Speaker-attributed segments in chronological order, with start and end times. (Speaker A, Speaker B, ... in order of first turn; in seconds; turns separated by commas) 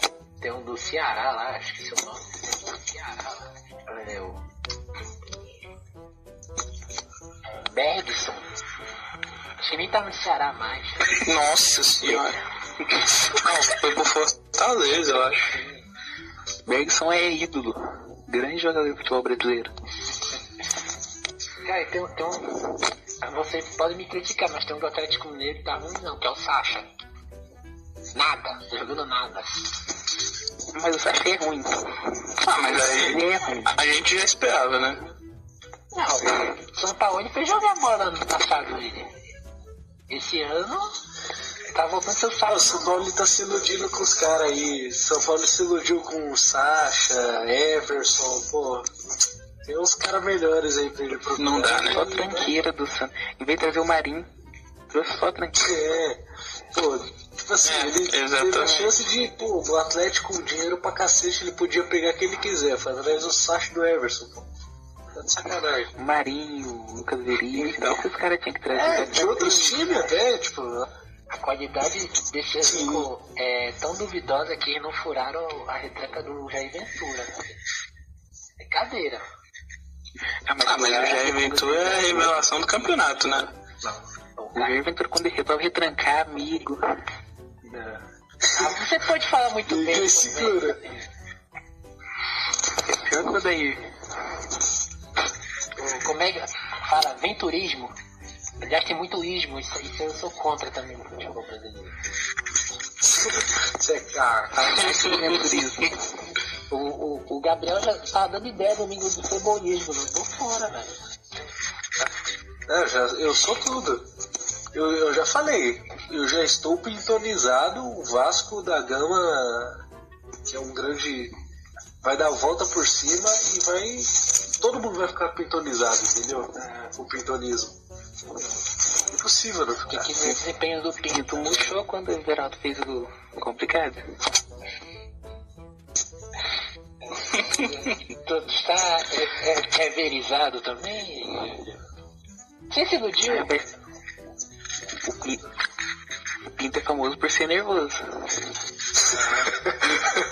Speaker A: 0.4-4.4, Speaker A: 7.6-8.4, Speaker A: 9.6-11.2, Speaker B: 11.1-12.4, Speaker B: 13.2-15.5, Speaker C: 16.6-19.7, Speaker A: 21.6-22.6, Speaker A: 23.2-26.9, Speaker A: 28.1-29.8, Speaker C: 30.7-32.0, Speaker B: 32.4-35.0, Speaker C: 32.6-33.7, Speaker A: 35.9-39.1, Speaker A: 40.1-41.0, Speaker A: 41.7-43.0, Speaker D: 42.5-48.9, Speaker D: 49.6-52.6, Speaker B: 51.4-52.0, Speaker C: 51.9-54.3, Speaker C: 54.9-55.7, Speaker D: 55.6-64.5, Speaker B: 57.6-58.9, Speaker D: 65.1-65.9, Speaker C: 66.0-70.0, Speaker B: 67.5-68.1, Speaker D: 68.7-70.9, Speaker A: 71.3-77.6, Speaker D: 72.6-73.1, Speaker A: 78.6-79.3, Speaker C: 80.5-82.3, Speaker B: 80.6-83.5, Speaker A: 83.8-84.7, Speaker C: 84.5-86.8, Speaker A: 87.6-88.0, Speaker D: 88.5-88.7, Speaker A: 88.5-91.0, Speaker D: 89.7-90.8, Speaker C: 92.8-93.8, Speaker A: 95.8-97.9, Speaker A: 98.6-102.0, Speaker D: 103.0-104.9, Speaker C: 104.5-106.0, Speaker A: 106.7-110.9, Speaker D: 112.7-114.1, Speaker D: 114.7-119.8, Speaker D: 120.5-121.3, Speaker D: 122.0-127.8, Speaker D: 129.1-130.4, Speaker A: 129.9-131.8, Speaker C: 131.1-134.1, Speaker A: 137.1-141.8, Speaker A: 142.7-143.5, Speaker C: 143.2-143.7, Speaker C: 145.0-145.4, Speaker C: 146.5-148.0, Speaker A: 149.1-149.7